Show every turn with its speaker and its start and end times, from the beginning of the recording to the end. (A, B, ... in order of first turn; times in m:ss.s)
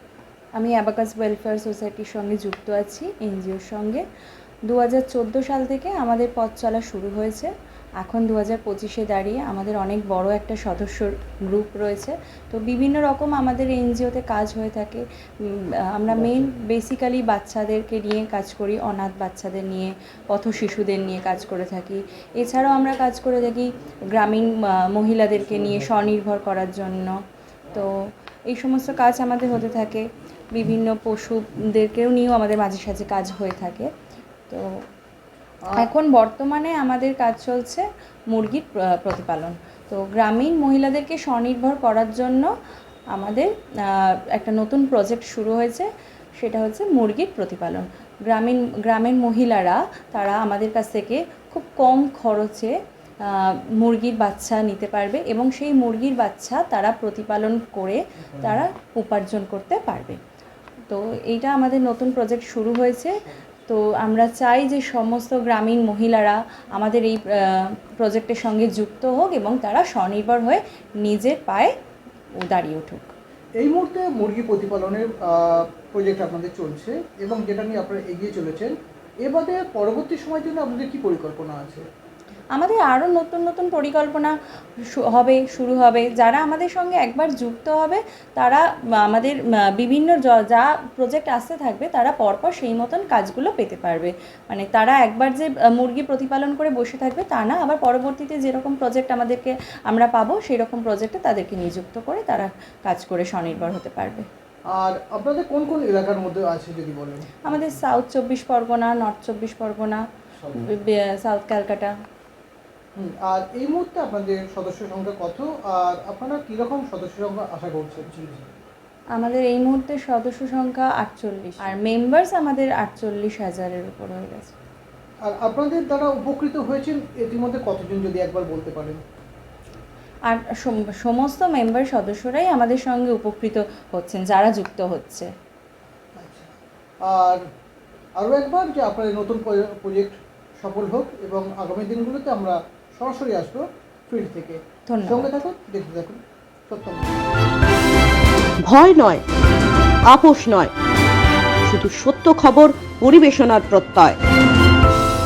0:00.6-0:04.0 A
0:04.7-0:27.2 A
0:27.7-0:33.9 A
0:35.6-0:35.9 B
0:35.7-0:42.5 A
0:43.1-1:00.2 A
1:00.9-1:11.7 A
1:12.4-1:13.1 A
1:13.6-1:21.8 B
1:22.5-1:24.3 A
1:24.9-1:44.3 A
1:44.7-1:47.3 B
1:47.4-1:50.0 A
1:50.4-1:50.6 B
1:50.6-1:51.9 A
1:53.0-1:58.5 B
1:59.2-2:04.5 A
2:05.2-2:09.0 B
2:10.3-2:15.3 A
2:16.2-2:17.4 B
2:18.2-2:27.1 B
2:24.9-2:25.4 A
2:28.6-2:29.2 C
2:30.0-2:30.7 C
2:31.6-2:34.2 C